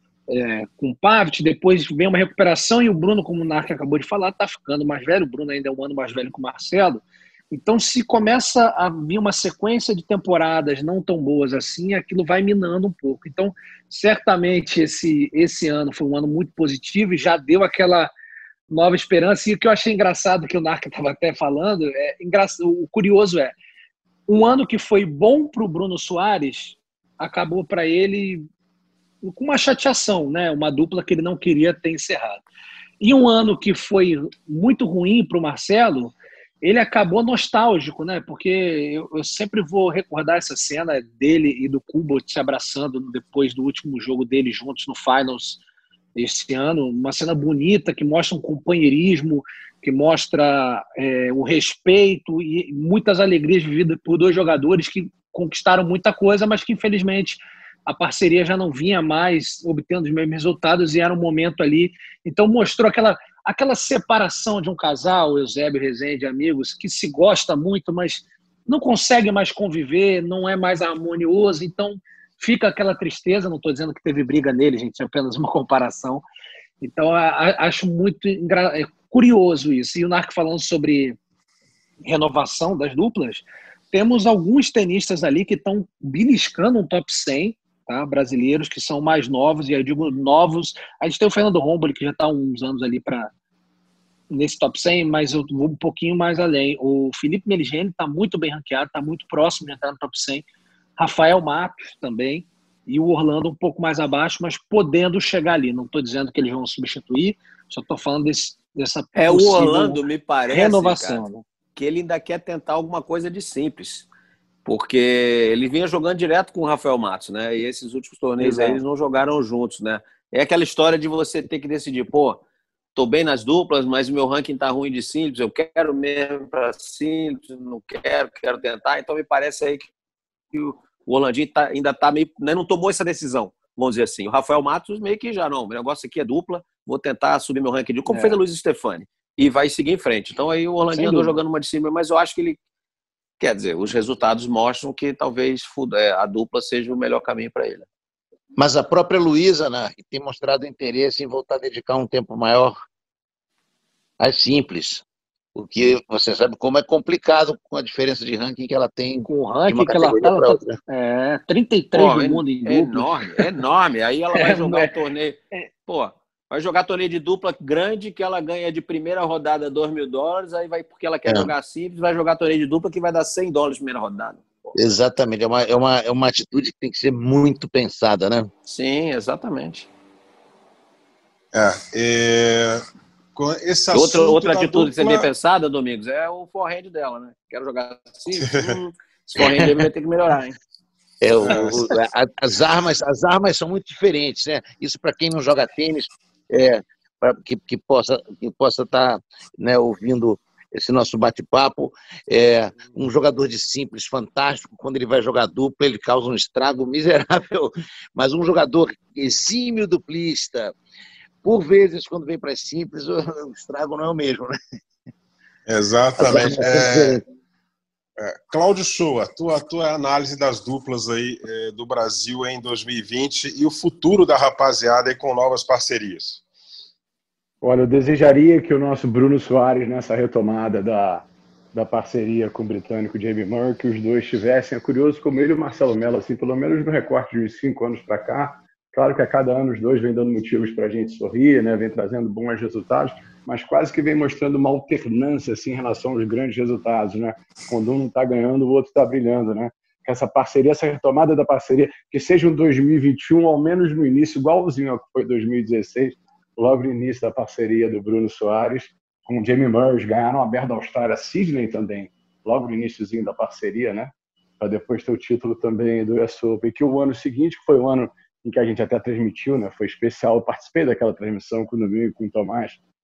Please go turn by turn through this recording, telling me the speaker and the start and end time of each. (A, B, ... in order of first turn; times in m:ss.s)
0:00.3-0:18.1 A
0:18.7-0:23.5 A
0:24.3-0:28.4 A
0:29.2-0:32.4 A
0:33.0-0:45.6 A
0:46.1-1:16.2 A
1:16.8-1:21.2 A
1:22.0-1:33.3 A
1:34.3-1:40.4 A
1:41.0-1:51.4 A
1:49.1-1:51.2 B
1:51.8-1:54.1 B
1:54.6-2:02.4 B
1:58.4-1:58.8 A
2:02.9-2:09.9 B
2:10.5-2:22.6 B
2:18.1-2:18.4 A
2:20.9-2:21.3 A
2:23.4-2:27.8 B
2:28.6-2:32.7 C
2:34.2-2:35.0 C
2:35.5-2:40.8 C
2:39.2-2:43.5 A
2:41.9-2:54.4 B
2:44.3-2:44.9 A
2:54.7-2:58.5 C
2:58.6-2:59.9 B
3:01.5-3:02.8 D
3:03.3-3:05.3 D
3:03.9-3:10.6 B
3:08.3-3:08.8 D
3:09.4-3:09.8 C
3:11.2-3:30.7 C
3:11.4-3:11.9 D
3:31.4-3:34.6 C
3:35.7-3:37.2 D
3:36.2-3:37.2 C
3:38.2-3:46.4 D
3:47.6-4:32.8 E